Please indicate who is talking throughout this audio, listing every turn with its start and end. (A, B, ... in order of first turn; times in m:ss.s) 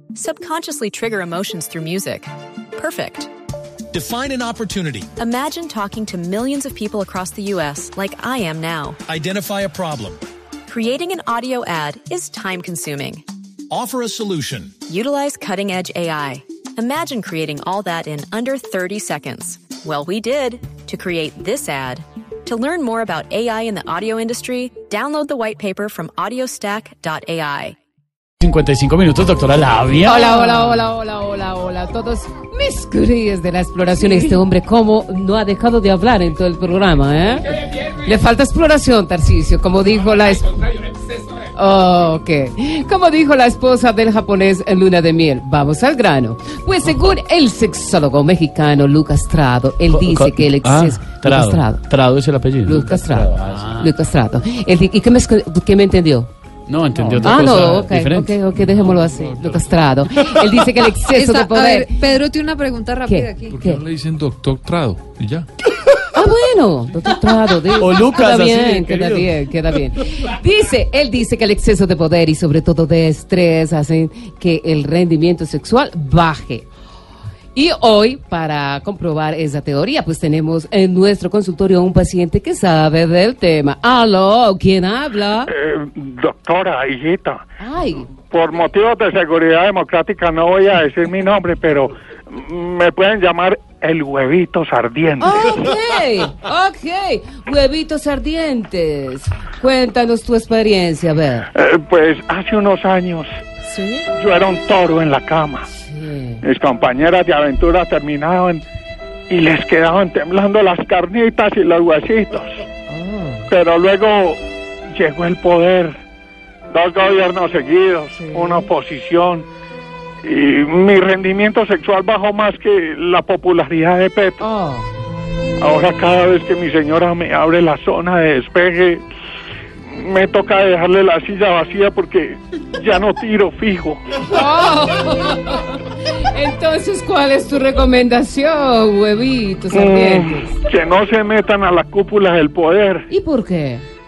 0:00.2-0:03.3 A
0:03.9-0:05.1 B
0:05.2-0:09.0 A
0:09.1-0:10.2 B
0:10.7-0:13.2 A
0:13.7-0:14.8 B
0:14.9-0:27.8 A
0:28.4-0:30.8 C
0:30.0-0:40.7 D
0:41.5-0:51.9 D
0:49.9-0:53.9 C
0:52.6-0:56.3 D
0:56.7-0:58.9 C
0:57.0-0:57.9 E
0:57.2-1:02.0 D
0:58.7-0:59.8 E
1:01.1-1:03.6 F
1:03.0-1:03.8 D
1:03.5-1:05.5 E
1:06.2-1:16.7 D
1:07.8-1:09.4 C
1:17.6-1:25.5 D
1:25.5-1:27.4 G
1:27.6-1:28.1 D
1:28.1-1:35.8 G
1:35.2-1:41.5 D
1:41.5-1:43.4 G
1:43.6-1:44.1 D
1:44.1-1:45.7 G
1:45.7-1:46.4 D
1:46.4-1:48.6 G
1:49.3-1:52.6 G
1:52.9-1:53.5 D
1:53.5-1:54.4 G
1:55.0-1:56.0 G
1:56.7-1:59.5 G
1:58.2-1:58.6 D
2:00.2-2:04.4 G
2:04.4-2:04.9 D
2:05.6-2:09.0 G
2:09.9-2:14.0 G
2:14.3-2:20.5 D
2:19.7-2:23.1 G
2:23.1-2:23.8 D